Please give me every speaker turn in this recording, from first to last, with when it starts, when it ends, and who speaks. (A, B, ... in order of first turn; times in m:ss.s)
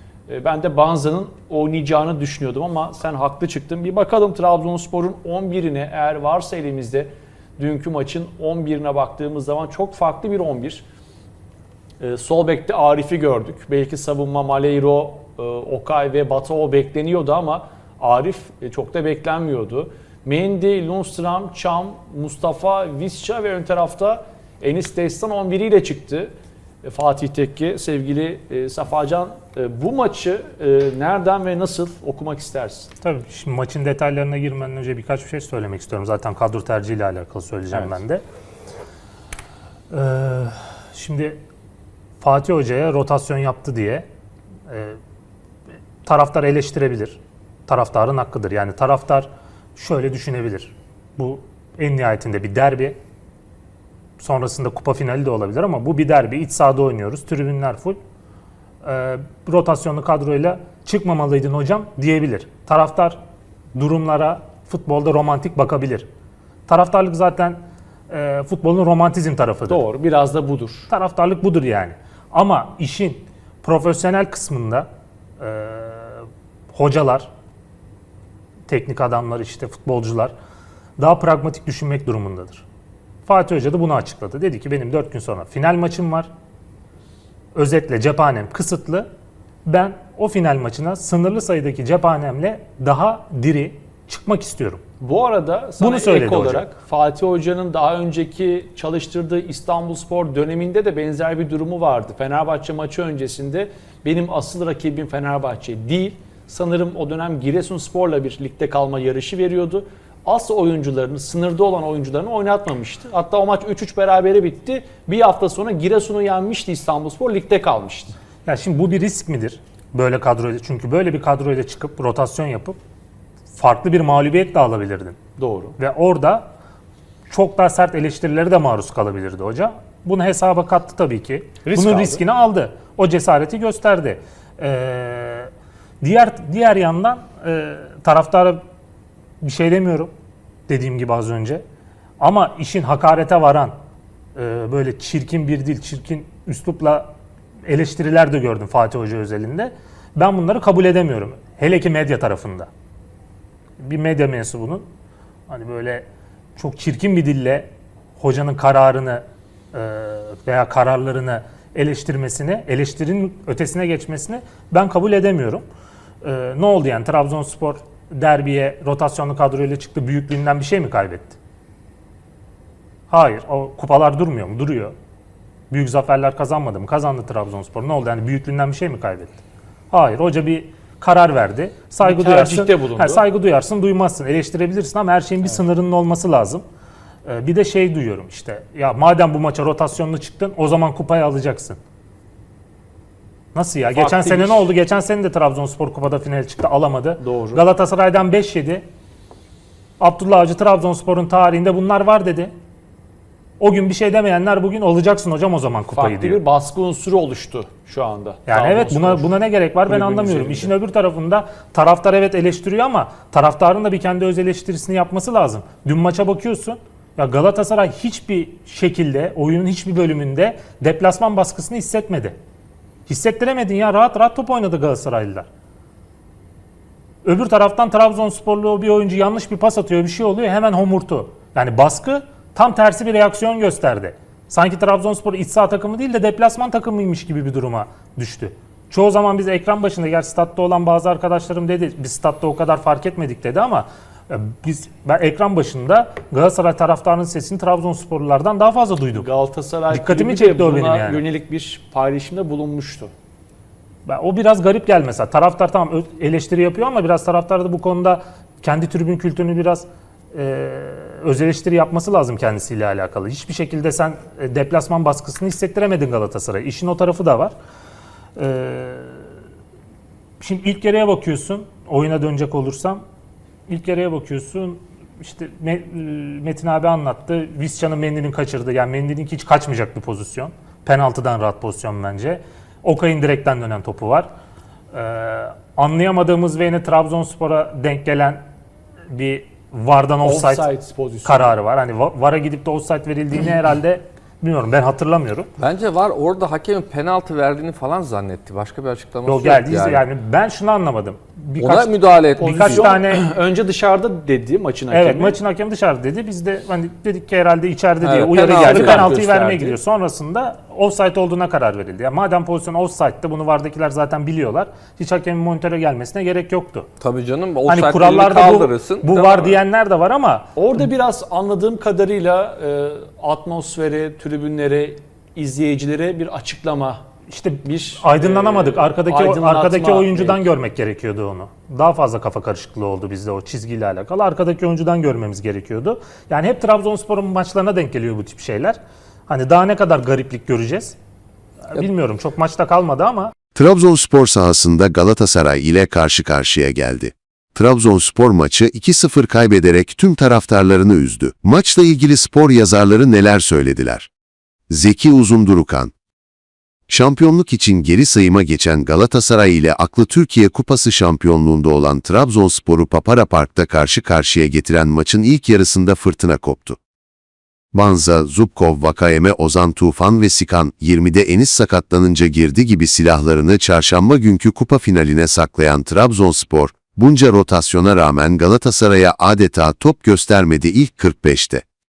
0:00.3-0:10.8 A
0:12.0-0:26.3 A
0:26.8-0:32.9 A
0:33.0-0:38.2 B
0:39.9-0:41.4 B
0:42.2-0:44.0 B
0:44.7-0:45.0 B
0:46.0-0:53.0 B
0:54.2-0:58.0 B
0:58.8-1:03.2 B
1:03.7-1:06.1 B
1:06.7-1:09.8 B
1:09.7-1:10.9 A
1:10.9-1:14.9 B
1:15.4-1:17.3 B
1:18.7-1:20.3 B
1:21.0-1:22.6 B
1:23.2-1:26.3 B
1:27.5-1:29.1 B
1:29.6-1:34.8 B
1:35.0-1:58.1 A
1:35.8-1:36.6 B
1:58.4-2:02.8 B
2:03.5-2:05.2 B
2:05.4-2:05.8 A
2:05.8-2:06.4 B
2:07.3-2:15.5 B
2:11.6-2:12.2 A
2:16.0-2:18.6 B
2:19.4-2:20.1 B
2:20.7-2:21.6 B
2:22.2-2:23.7 B
2:24.4-2:27.1 B
2:27.6-2:32.7 B
2:33.8-2:34.8 B
2:35.5-2:45.6 B
2:46.2-2:51.4 B
2:53.1-2:54.9 B
2:55.7-3:06.6 B
3:02.0-3:03.2 A
3:07.2-3:11.8 B
3:13.5-3:18.8 B
3:13.9-3:14.7 A
3:17.2-3:17.6 A
3:20.0-3:22.5 B
3:23.6-3:26.4 B
3:25.9-3:29.3 A
3:28.5-3:42.4 B
3:29.9-3:30.7 A
3:43.1-3:45.5 B
3:47.2-4:09.3 B
4:09.1-4:13.1 A
4:09.9-4:11.2 B
4:14.0-4:27.5 B
4:28.4-4:29.2 B
4:30.4-4:33.0 B
4:33.7-4:44.3 B
4:44.9-4:48.4 B
4:49.1-4:50.6 B
4:50.2-4:51.5 A
4:51.2-4:55.5 B
4:55.6-5:00.0 C
4:59.2-5:03.2 B
5:01.6-5:02.9 C
5:02.4-5:05.4 A
5:04.9-5:16.9 B
5:08.0-5:09.7 C
5:08.7-5:09.1 A
5:17.0-5:19.6 C
5:17.7-5:20.5 B
5:20.6-5:27.0 A
5:27.3-5:40.9 B
5:27.6-5:30.4 A
5:41.7-5:43.3 B
5:43.5-5:54.1 D
5:54.7-5:55.9 D
5:56.9-6:06.8 D
6:07.7-6:21.6 D